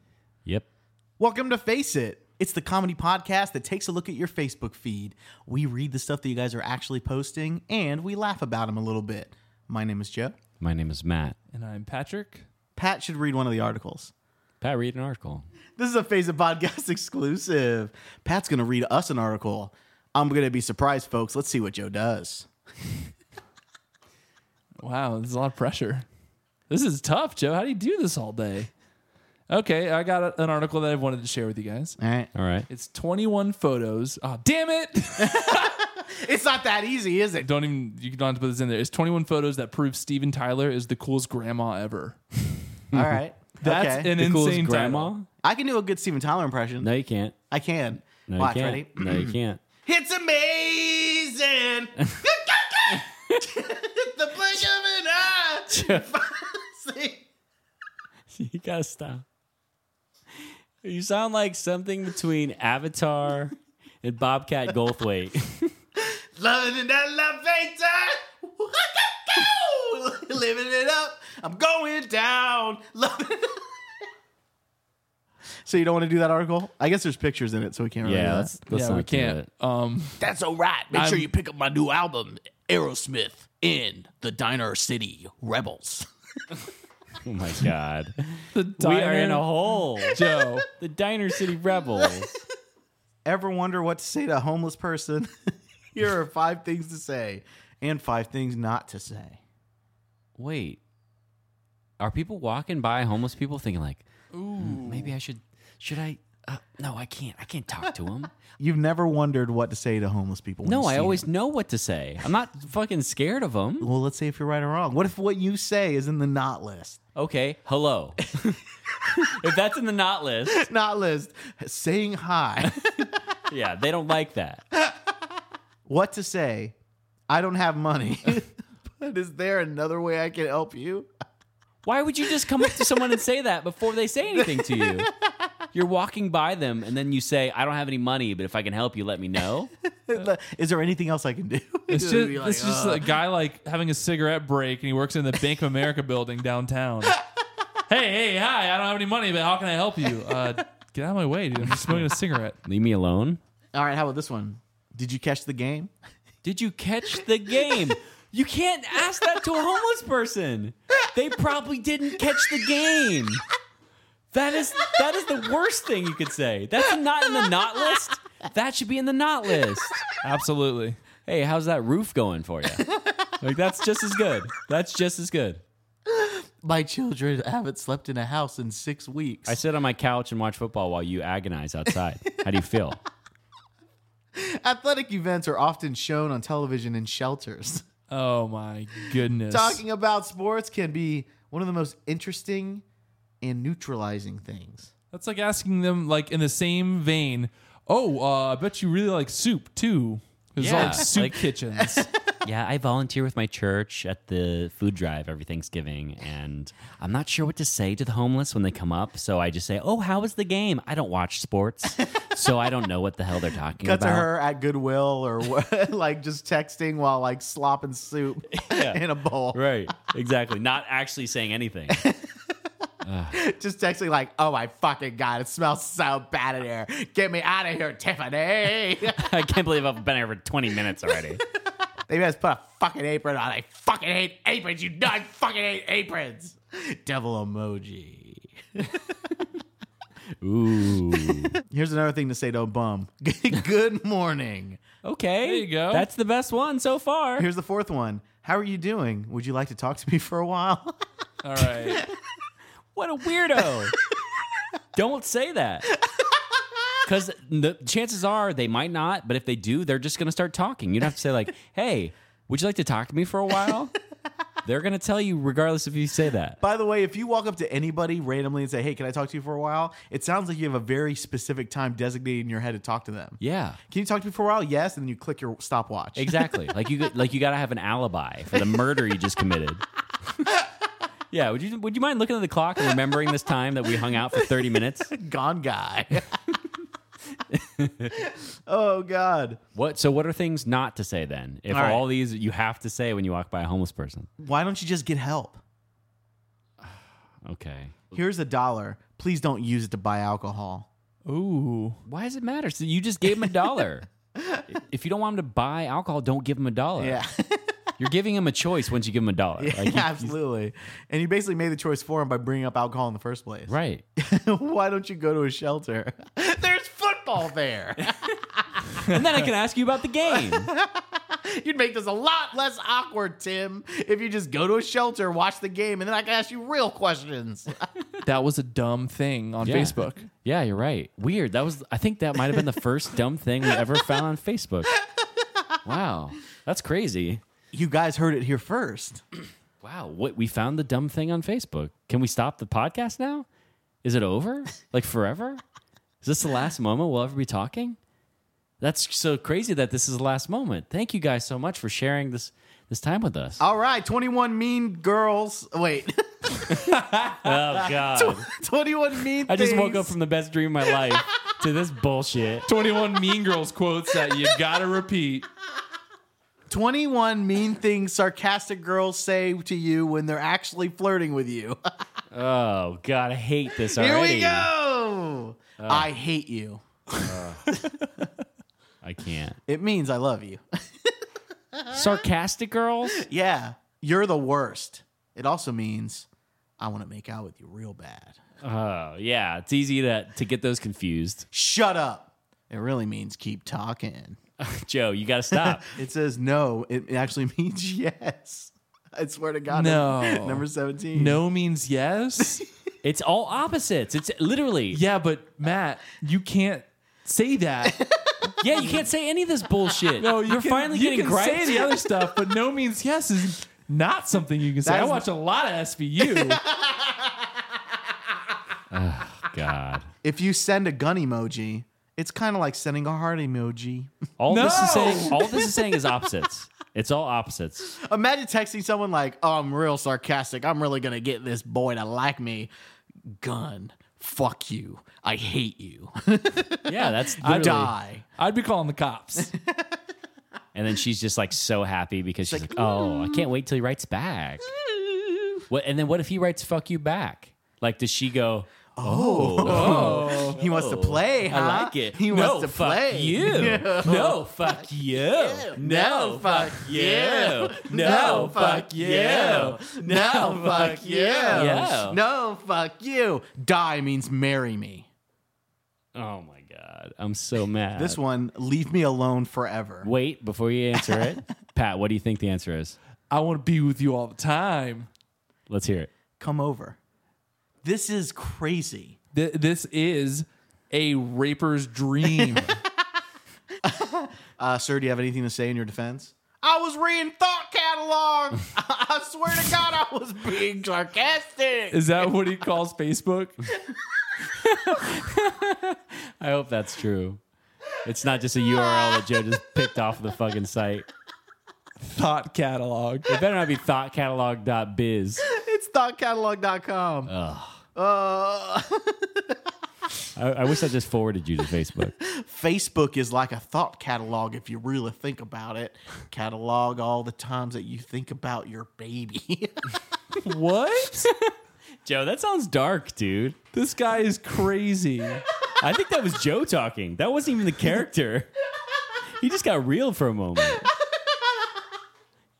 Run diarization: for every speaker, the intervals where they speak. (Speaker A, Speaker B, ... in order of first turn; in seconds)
Speaker A: 1.2-10.3, 12.8-14.1, 15.8-22.5, 32.0-32.3, 35.2-37.5, 42.9-44.2, 45.4-46.9, 47.5-57.2, 66.0-73.7, 75.7-78.5, 80.2-86.5, 92.0-92.2, 93.2-99.4, 108.6-111.3, 113.8-117.0, 120.5-122.9, 124.8-125.1, 125.8-126.8, 127.3-131.1, 132.6-132.8, 134.3-135.5, 140.1-143.1, 147.4-147.7, 153.7-155.9, 176.1-179.6, 184.3-187.8, 189.5-192.8, 193.4-194.9, 201.8-202.1, 213.8-219.9, 221.9-222.6, 223.3-229.2, 232.1-239.4, 241.5-244.8, 247.4-251.0, 251.6-252.2, 256.0-256.8, 266.6-276.5, 284.4-286.5, 288.0-289.6, 291.7-292.0, 294.4-295.6, 298.1-300.9, 304.4-304.6, 307.0-307.7, 309.6-318.9, 320.2-327.9, 337.7-339.2, 353.6-357.0, 357.9-360.1, 360.9-361.2, 366.7-371.8, 373.7-376.8, 377.7-378.2, 379.7-381.1, 381.7-382.2, 383.1-386.3, 386.8-388.4, 391.5-394.4, 395.5-401.4, 407.9-409.0, 414.8-415.2, 416.2-417.8, 420.2-424.1, 424.6-425.6, 428.0-432.7, 433.2-438.2, 439.4-440.0, 442.5-443.5, 444.7-445.6, 448.9-465.1, 467.9-470.1, 470.9-471.4, 476.4-477.0, 477.8-479.2, 482.3-482.7, 483.8-492.3, 498.8-499.2, 505.4-507.3, 507.9-509.6, 512.2-520.0, 530.7-531.8
Speaker B: 10.6-11.3, 14.6-15.5, 32.3-32.7, 42.9-43.2, 44.2-45.3, 46.8-47.3, 48.3-49.6, 55.7-56.1, 58.3-59.2, 60.8-65.7, 78.0-79.5, 87.2-90.2, 90.7-92.4, 100.4-100.8, 102.0-108.3, 110.6-113.9, 117.2-118.6, 119.1-120.6, 122.7-124.6, 131.8-135.1, 135.7-139.7, 152.6-153.4, 156.4-163.4, 164.3-169.9, 171.2-172.9, 173.4-175.6, 179.4-183.0, 200.6-201.4, 202.4-214.3, 218.5-222.0, 223.0-223.4, 229.1-231.4, 240.4-241.5, 245.0-247.5, 252.9-253.9, 254.9-255.9, 257.0-263.9, 264.6-266.6, 273.4-273.8, 276.1-279.8, 281.3-285.1, 287.6-288.1, 289.7-294.3, 296.8-298.1, 302.1-304.1, 304.7-307.2, 308.0-310.3, 313.7-314.0, 319.0-320.7, 329.6-335.0, 335.8-337.4, 339.8-343.4, 344.0-345.6, 346.2-348.0, 348.8-353.6, 357.4-358.5, 359.4-362.7, 372.3-374.7, 375.8-376.1, 377.1-377.7, 379.0-379.6, 381.9-383.2, 388.6-391.4, 394.6-395.9, 403.0-405.0, 408.6-411.9, 418.9-420.1, 424.4-427.9, 436.9-437.9, 440.7-444.7, 445.7-462.2, 466.1-468.2, 470.0-473.0, 475.7-476.1, 494.5-497.4, 498.0-501.1, 503.3-505.4, 507.3-507.8, 510.4-512.1, 521.2-521.5, 522.0-523.6, 525.8-528.5, 529.4-530.9
Speaker C: 11.5-12.5, 24.8-26.1, 26.7-28.7, 29.5-32.0, 32.7-35.7, 37.4-42.2, 43.6-45.1, 78.7-80.2, 80.9-81.3, 88.5-89.5, 90.1-90.7, 104.3-105.1, 141.9-147.2, 147.9-152.6, 170.2-171.0, 188.1-189.8, 195.1-202.1, 245.4-246.1, 251.4-252.0, 301.2-302.0, 328.2-330.3, 356.8-357.4, 362.7-365.5, 399.7-402.6, 404.9-408.0, 410.2-416.6, 424.5-425.6, 437.4-439.5, 449.6-450.6, 457.9-459.8, 461.4-461.9, 473.3-475.1, 479.3-482.8, 491.9-493.6, 502.0-503.3, 520.4-521.3, 523.7-525.4